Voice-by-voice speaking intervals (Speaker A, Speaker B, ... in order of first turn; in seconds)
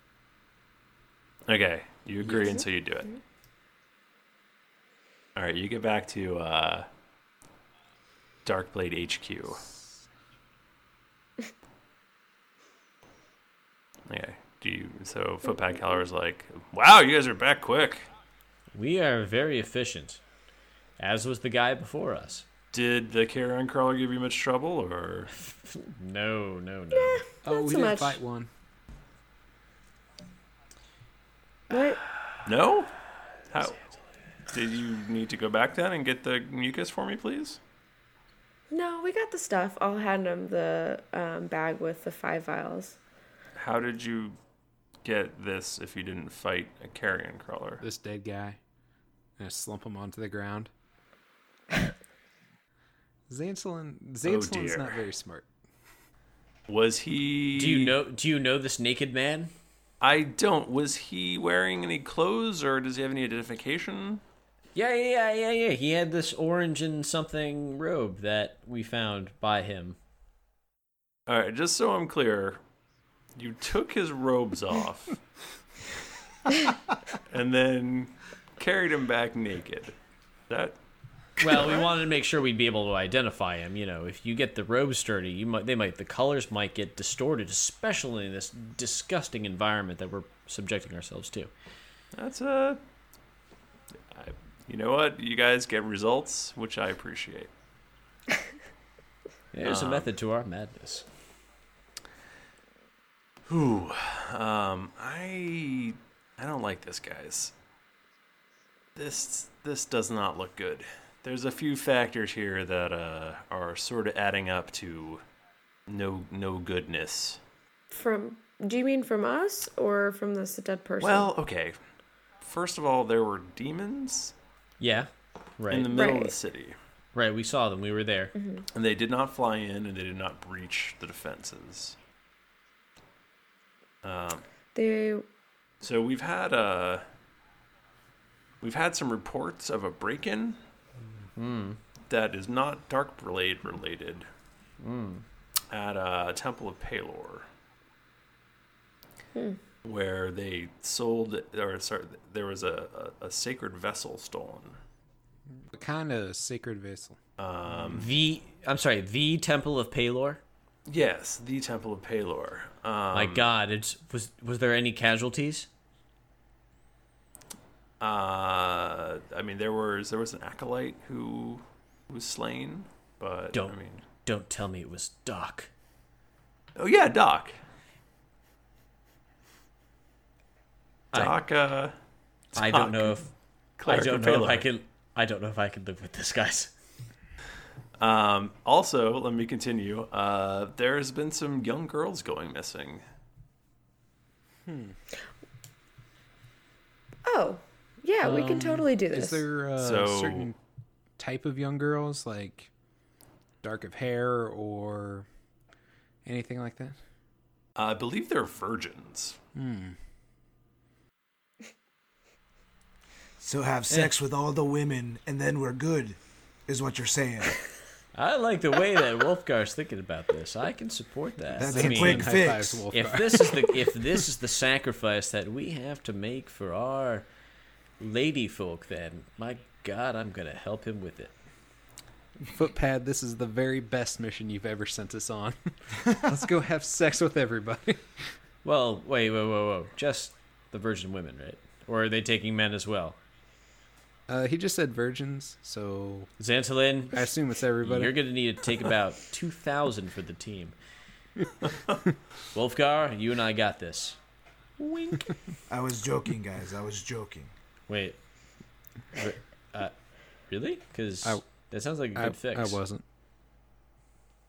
Speaker A: 1.5-3.1, 5.3-6.8, 8.4-9.6, 14.1-18.1, 22.7-25.3, 32.4-32.9, 33.5-33.8, 34.5-37.6, 43.5-44.4, 45.0-47.8, 54.2-55.0, 56.7-58.0, 60.0-64.2, 71.3-72.6, 73.3-75.2, 77.3-79.9, 80.5-80.8, 92.1-92.8, 94.1-97.5, 99.6-100.1, 103.5-107.5, 109.0-115.2, 115.9-117.4, 121.0-121.8, 122.4-124.3, 125.7-126.8, 128.7-131.9, 134.0-134.4, 135.8-137.0, 138.6-140.6, 142.1-144.2, 145.7-147.5, 149.8-154.8, 157.4-158.1, 160.9-163.5, 168.0-174.0, 176.8-177.5, 181.1-181.9, 182.5-183.2, 183.8-184.7, 188.0-193.0, 199.8-200.5, 207.8-209.4
Speaker B: 2.3-2.6, 26.9-28.2, 31.7-32.0, 38.7-43.0, 117.9-121.3, 125.9-126.3, 128.3-128.6, 134.7-135.2, 197.2-199.4
Speaker C: 18.7-20.2, 21.0-22.4, 25.4-27.2, 57.5-59.5, 64.7-70.0, 81.4-91.5, 99.5-101.0, 124.8-126.0, 127.1-128.3, 141.3-141.8, 144.8-145.2, 157.9-160.4, 163.1-165.7, 173.5-175.7, 182.6-183.3, 183.8-186.7, 218.1-222.3, 222.9-227.2, 228.0-231.3, 238.6-243.2, 246.4-247.3, 247.8-250.7, 252.5-254.2, 254.8-255.2, 257.9-258.2, 259.1-259.9, 260.5-262.8
Speaker D: 27.4-28.5, 47.8-48.6, 49.4-50.7, 53.3-55.5, 155.6-157.2, 194.7-195.0, 198.2-200.6, 201.2-202.7, 203.6-205.2, 206.2-207.0, 209.6-210.0, 221.7-223.9, 232.5-238.1, 244.3-246.3, 247.1-248.2, 262.1-263.0
Speaker E: 213.4-217.6, 221.5-222.8, 255.7-257.5